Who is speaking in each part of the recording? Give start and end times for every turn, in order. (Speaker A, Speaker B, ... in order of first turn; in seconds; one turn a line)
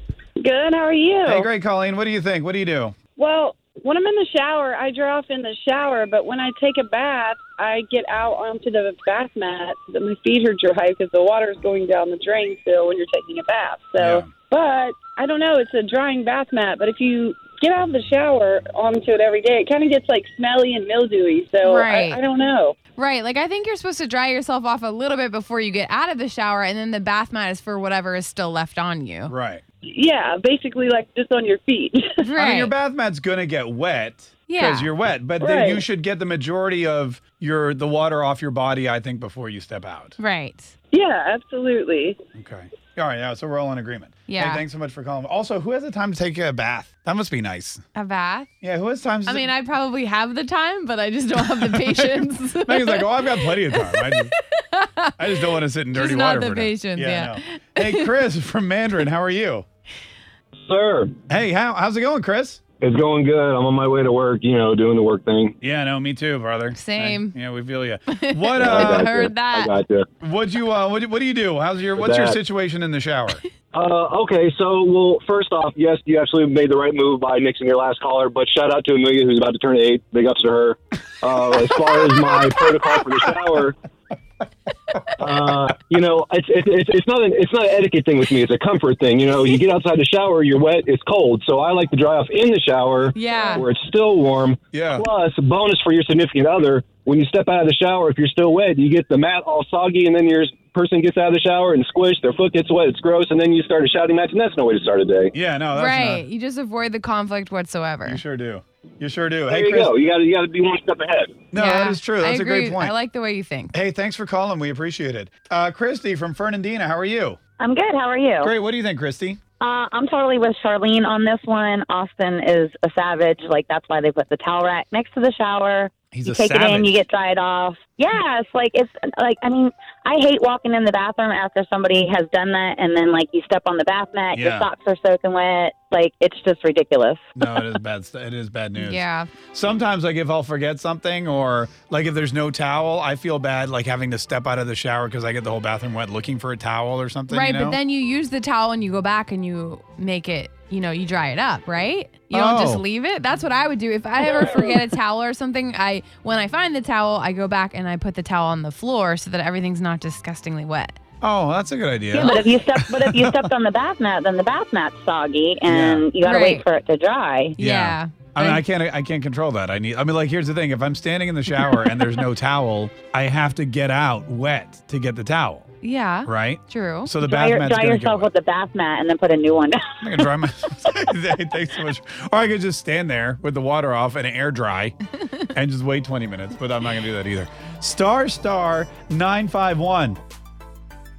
Speaker A: 0.4-1.4
Speaker B: 1.2-3.0
Speaker A: 3.2-22.8
Speaker B: 14.0-14.3
Speaker C: 21.6-22.2
Speaker C: 22.9-29.3
Speaker B: 29.3-29.6
Speaker A: 29.9-32.1
Speaker C: 32.2-32.7
Speaker B: 32.4-40.1
Speaker C: 34.5-34.9
Speaker A: 35.4-35.8
Speaker C: 40.2-40.7
Speaker A: 40.9-42.2
Speaker B: 42.3-47.8
Speaker C: 44.3-44.6
Speaker C: 47.9-48.5
Speaker B: 48.6-49.5
Speaker C: 49.2-55.1
Speaker B: 51.4-54.3
Speaker B: 55.2-59.6
Speaker C: 55.9-58.1
Speaker D: 60.6-61.1
Speaker B: 61.3-62.6
Speaker D: 62.8-65.5
Speaker B: 65.6-69.1
Speaker C: 66.7-67.3
Speaker C: 68.1-69.8
Speaker D: 68.6-70.1
Speaker B: 70.2-73.4
Speaker D: 71.9-72.4
Speaker D: 73.7-83.8
Speaker D: 85.2-105.3
Speaker C: 93.1-93.6
Speaker B: 94.7-95.1
Speaker B: 105.3-106.2
Speaker C: 105.7-108.2
Speaker B: 108.0-109.9
Speaker D: 109.5-111.3
Speaker B: 111.5-113.0
Speaker C: 111.5-113.7
Speaker B: 113.7-117.4
Speaker E: 117.6-118.5
Speaker B: 118.4-119.4
Speaker E: 119.6-137.2
Speaker B: 126.1-127.0
Speaker B: 134.3-134.7
Speaker B: 137.3-147.8
Speaker C: 138.8-139.3
Speaker C: 147.3-160.9
Speaker B: 152.3-152.8
Speaker B: 161.2-163.5
Speaker E: 162.1-167.6
Speaker B: 165.7-166.1
Speaker C: 166.2-166.7
Speaker C: 167.6-168.6
Speaker B: 167.6-175.7
Speaker C: 175.8-177.1
Speaker B: 176.2-178.3
Speaker E: 177.2-179.9
Speaker B: 180.0-184.9
Speaker B: 185.5-190.2